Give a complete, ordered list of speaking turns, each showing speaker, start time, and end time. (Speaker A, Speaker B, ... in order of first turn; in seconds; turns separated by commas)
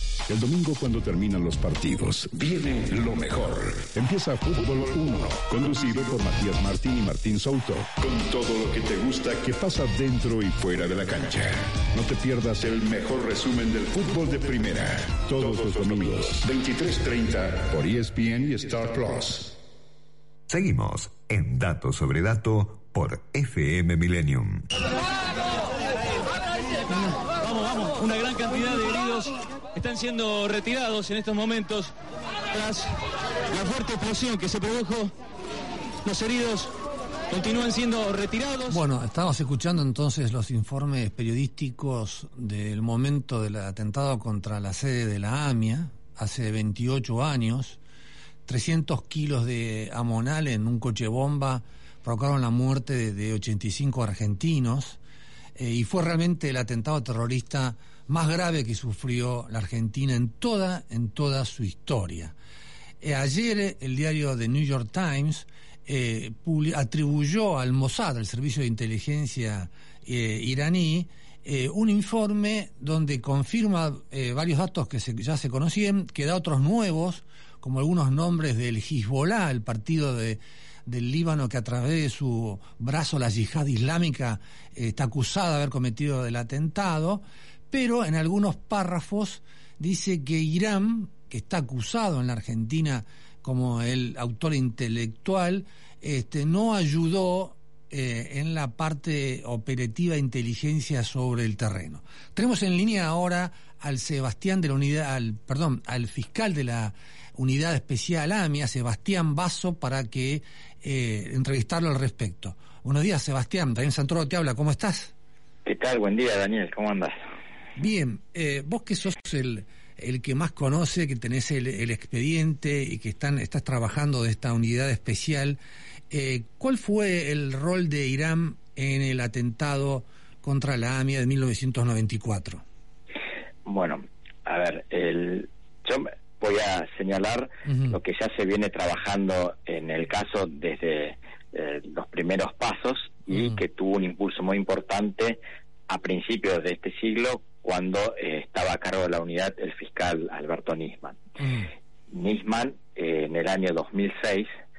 Speaker A: 0.3-19.6, Speaker B: 20.5-24.7, Speaker C: 26.9-31.9, Speaker C: 32.5-32.9, Speaker C: 33.5-35.1, Speaker C: 36.0-36.7, Speaker C: 37.3-38.8, Speaker D: 38.6-47.8, Speaker D: 48.5-55.0, Speaker D: 55.6-62.3, Speaker D: 63.0-115.1, Speaker E: 115.6-117.1, Speaker D: 117.8-125.6, Speaker D: 126.1-132.6, Speaker E: 133.6-151.2, Speaker D: 137.7-138.0, Speaker D: 143.3-143.6, Speaker D: 151.4-151.7, Speaker E: 152.1-154.5